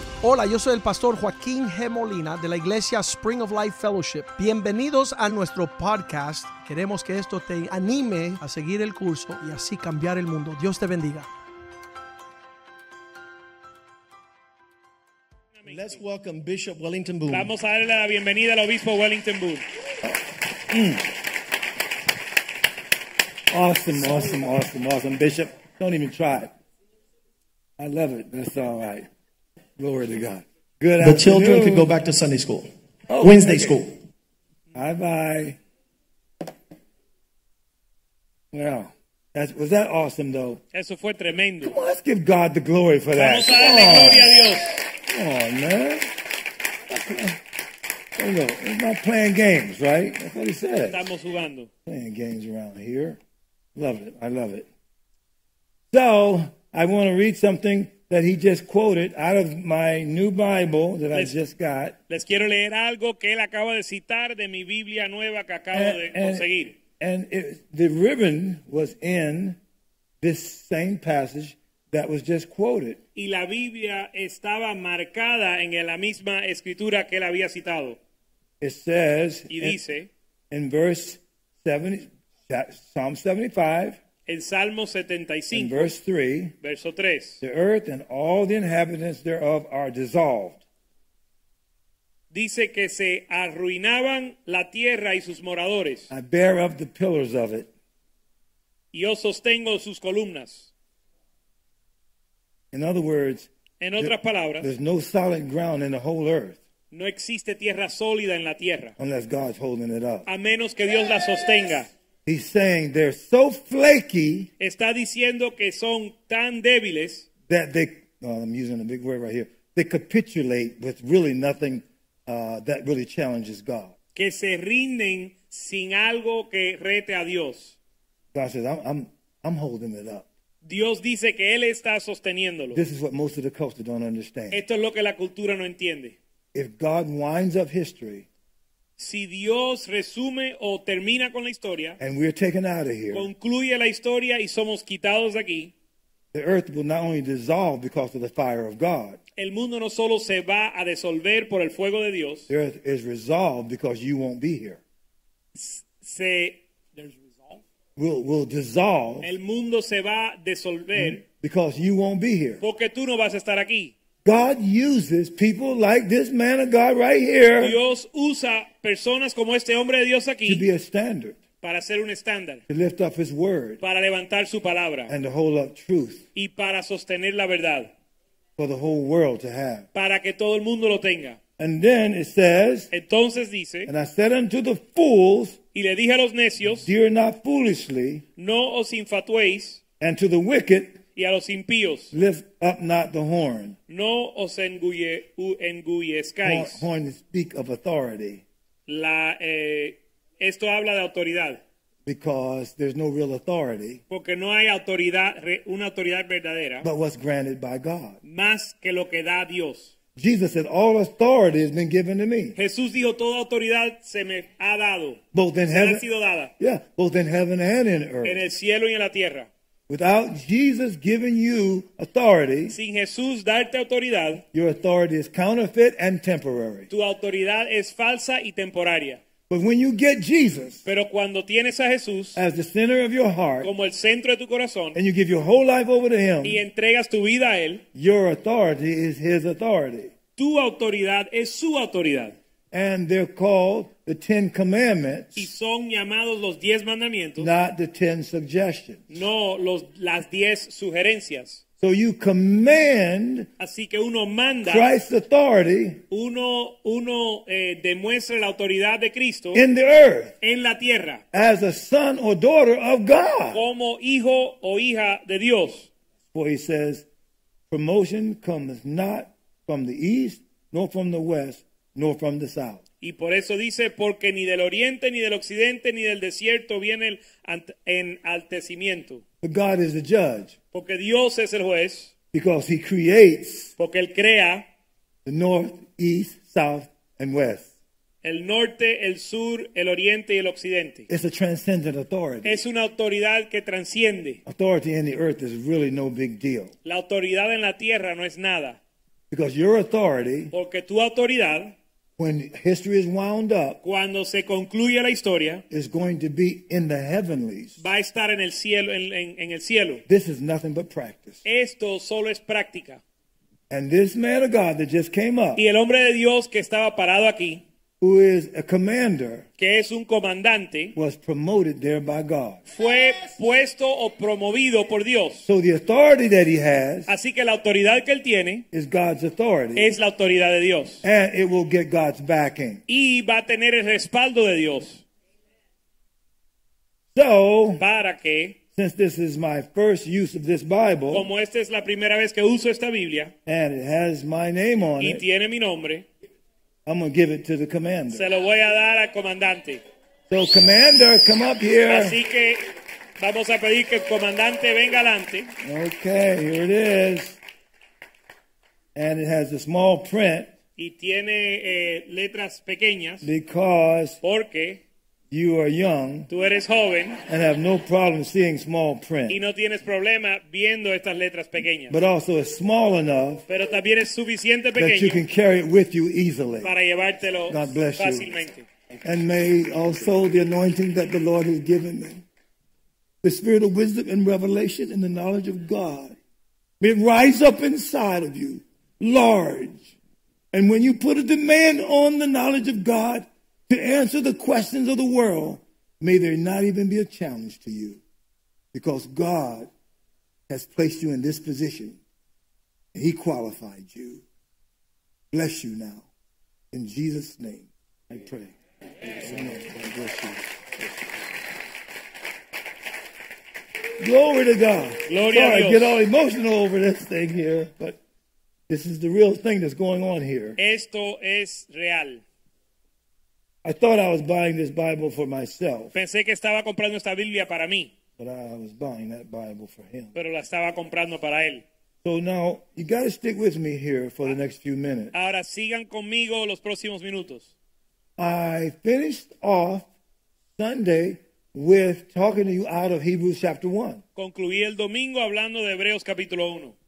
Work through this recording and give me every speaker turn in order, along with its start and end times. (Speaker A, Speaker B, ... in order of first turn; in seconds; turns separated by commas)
Speaker A: 0.2-11.3, Speaker B: 15.6-16.0, Speaker C: 15.7-17.5, Speaker B: 17.3-19.6, Speaker D: 20.7-21.1, Speaker D: 23.5-26.5, Speaker D: 27.8-29.1, Speaker D: 29.8-31.9, Speaker C: 31.0-34.0, Speaker D: 33.1-33.8, Speaker D: 34.7-35.6, Speaker D: 38.5-40.6, Speaker B: 40.7-41.8, Speaker D: 41.6-44.4, Speaker B: 43.2-44.8, Speaker D: 45.0-46.1, Speaker D: 46.9-47.4, Speaker D: 48.2-51.1, Speaker B: 50.9-51.7, Speaker D: 51.9-53.2, Speaker D: 53.8-54.7, Speaker D: 55.9-62.0, Speaker B: 61.1-61.4, Speaker B: 62.1-66.8, Speaker D: 65.7-69.6, Speaker D: 70.2-73.0, Speaker B: 73.2-78.0, Speaker D: 78.6-79.8, Speaker B: 79.5-80.1, Speaker D: 80.5-84.0, Speaker B: 84.3-85.9, Speaker D: 85.5-86.5, Speaker B: 86.6-87.4, Speaker D: 87.4-90.6, Speaker B: 92.3-96.1, Speaker D: 96.1-97.7, Speaker B: 98.9-100.7, Speaker D: 102.7-106.6, Speaker B: 103.8-104.7, Speaker B: 106.9-108.9, Speaker D: 109.0-110.3, Speaker B: 110.3-111.9, Speaker D: 112.3-114.5, Speaker B: 114.6-117.3, Speaker D: 117.5-123.9, Speaker B: 124.2-127.8, Speaker D: 128.3-130.3, Speaker B: 130.6-132.8, Speaker D: 132.7-134.6, Speaker B: 134.5-136.2, Speaker D: 136.5-138.3, Speaker B: 139.0-142.0, Speaker D: 142.0-143.3, Speaker B: 143.1-145.7, Speaker D: 146.3-149.2, Speaker B: 149.4-152.5, Speaker D: 152.5-154.8, Speaker B: 155.6-157.6, Speaker D: 158.0-159.3, Speaker B: 159.2-161.2, Speaker D: 160.9-162.6, Speaker B: 162.6-163.9, Speaker D: 164.2-167.8, Speaker B: 167.6-170.7, Speaker D: 170.5-171.4, Speaker B: 171.6-172.6, Speaker D: 172.7-173.8, Speaker B: 173.8-175.1, Speaker D: 175.1-176.2, Speaker B: 176.3-177.9, Speaker D: 178.6-179.9, Speaker B: 179.9-181.4, Speaker D: 181.6-182.9, Speaker B: 182.9-183.9, Speaker D: 183.9-185.6, Speaker B: 185.7-186.9, Speaker D: 186.6-188.2, Speaker B: 188.4-189.8, Speaker D: 190.0-191.0, Speaker B: 191.2-192.1, Speaker D: 192.1-193.8, Speaker B: 193.9-196.8, Speaker D: 196.4-198.4, Speaker B: 198.9-201.6, Speaker D: 202.1-204.0, Speaker B: 204.1-206.9, Speaker D: 206.8-208.2, Speaker B: 208.2-209.9, Speaker D: 210.2-212.6, Speaker B: 212.6-216.5, Speaker D: 215.3-216.1, Speaker D: 216.6-218.4, Speaker B: 218.2-219.5, Speaker D: 219.9-222.8, Speaker B: 222.7-224.4, Speaker D: 224.5-226.9, Speaker B: 226.9-229.2, Speaker D: 229.5-230.8, Speaker B: 230.8-232.4, Speaker D: 232.4-233.7, Speaker B: 233.6-235.0, Speaker D: 234.9-236.6, Speaker B: 236.4-237.8, Speaker D: 237.9-240.1, Speaker B: 240.4-242.4, Speaker D: 242.7-245.5, Speaker B: 245.4-247.5, Speaker D: 247.4-249.1, Speaker B: 249.1-251.6, Speaker D: 251.8-253.5, Speaker B: 253.6-254.9, Speaker D: 254.7-256.0, Speaker B: 256.1-259.6, Speaker D: 259.5-260.4, Speaker B: 260.4-261.2, Speaker D: 261.3-263.6, Speaker B: 263.5-265.9, Speaker D: 266.3-267.1, Speaker D: 267.7-272.8, Speaker B: 273.0-279.2, Speaker D: 279.4-280.5, Speaker B: 280.7-282.1, Speaker D: 282.3-283.7, Speaker B: 283.8-284.7, Speaker D: 285.2-287.7, Speaker B: 288.2-291.1, Speaker D: 291.1-292.6, Speaker B: 292.4-294.4, Speaker D: 294.5-296.7, Speaker B: 296.9-298.8, Speaker D: 299.3-300.5, Speaker B: 300.5-301.8, Speaker D: 302.2-303.8, Speaker B: 303.8-305.6, Speaker D: 305.7-307.8, Speaker B: 307.8-310.0, Speaker D: 310.1-311.4, Speaker B: 311.4-313.0, Speaker D: 313.7-315.6, Speaker B: 315.6-317.6, Speaker D: 318.0-319.5, Speaker B: 319.6-320.9, Speaker D: 320.9-322.6, Speaker B: 322.7-325.5, Speaker D: 325.5-327.1, Speaker B: 327.1-328.7, Speaker D: 328.7-329.9, Speaker B: 329.8-331.0, Speaker D: 331.0-332.8, Speaker B: 332.9-335.0, Speaker D: 337.1-337.8, Speaker B: 337.8-338.6, Speaker D: 338.8-341.3, Speaker B: 341.1-343.3, Speaker D: 343.5-345.2, Speaker B: 345.0-346.1, Speaker D: 346.9-348.3, Speaker B: 348.1-349.8, Speaker D: 350.3-352.2, Speaker B: 351.9-355.5, Speaker D: 355.6-357.4, Speaker D: 358.9-360.5, Speaker B: 360.8-363.3, Speaker D: 363.2-364.2, Speaker B: 364.2-364.8, Speaker D: 365.3-366.3, Speaker B: 366.3-367.2, Speaker D: 367.3-369.4, Speaker B: 369.3-372.0, Speaker D: 371.9-373.4, Speaker B: 373.5-375.2, Speaker D: 374.8-376.7, Speaker B: 376.6-378.7, Speaker D: 377.5-378.4, Speaker D: 379.0-382.2, Speaker D: 383.2-386.2, Speaker D: 386.8-389.9, Speaker D: 390.5-398.0, Speaker D: 398.7-399.7, Speaker D: 400.5-402.0, Speaker D: 402.9-404.2, Speaker D: 405.3-406.1, Speaker D: 406.7-411.0, Speaker D: 414.0-418.0, Speaker B: 415.1-416.0, Speaker D: 418.7-420.6, Speaker B: 420.6-422.2, Speaker D: 423.6-425.9, Speaker B: 425.9-427.9, Speaker D: 428.2-430.1, Speaker B: 430.1-431.6, Speaker D: 432.0-435.1, Speaker B: 435.1-437.5, Speaker D: 438.2-439.9, Speaker D: 440.6-444.0, Speaker B: 444.2-446.8